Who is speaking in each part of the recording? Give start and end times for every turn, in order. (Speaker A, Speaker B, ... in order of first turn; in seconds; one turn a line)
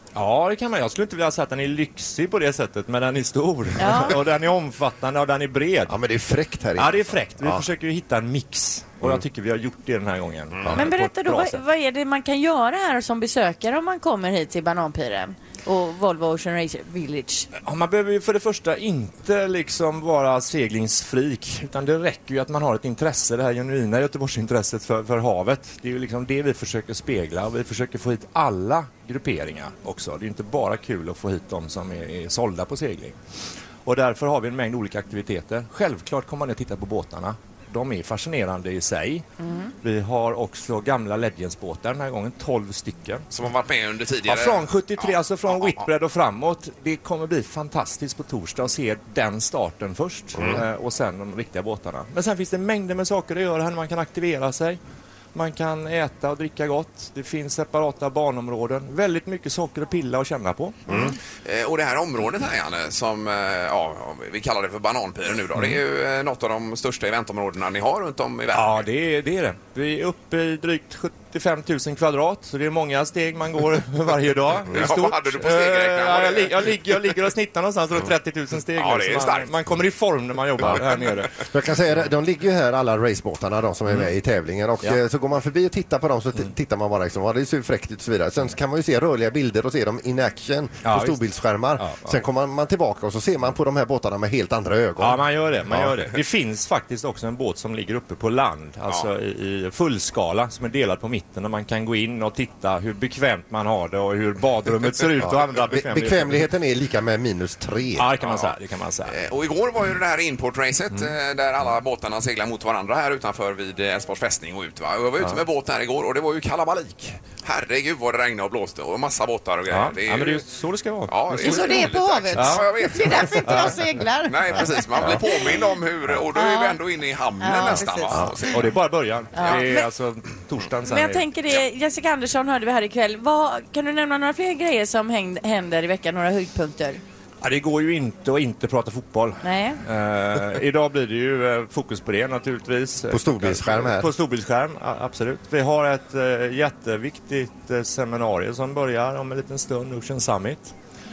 Speaker A: 0.1-6.0
Speaker B: 3.8-4.2
Speaker C: 5.9-7.6
Speaker A: 6.8-11.6
Speaker B: 10.8-17.5
Speaker A: 17.6-33.1
Speaker A: 33.8-39.2
Speaker A: 39.8-43.2
Speaker D: 43.3-45.9
Speaker A: 44.2-54.8
Speaker A: 55.3-61.1
Speaker D: 60.9-68.8
Speaker A: 68.5-81.3
Speaker D: 74.7-77.0
Speaker D: 78.8-79.5
Speaker D: 80.6-81.1
Speaker C: 81.5-95.9
Speaker A: 90.8-91.2
Speaker A: 91.8-92.1
Speaker A: 95.0-106.4
Speaker C: 105.2-108.1
Speaker A: 108.0-109.2
Speaker D: 108.2-108.5
Speaker D: 109.1-120.4
Speaker A: 119.7-123.8
Speaker D: 121.1-123.8
Speaker E: 121.3-125.7
Speaker D: 124.3-128.7
Speaker E: 126.3-126.8
Speaker E: 127.4-128.6
Speaker A: 128.5-131.3
Speaker B: 129.3-129.9
Speaker B: 130.8-137.0
Speaker A: 137.4-150.7
Speaker B: 139.4-139.8
Speaker C: 143.1-144.1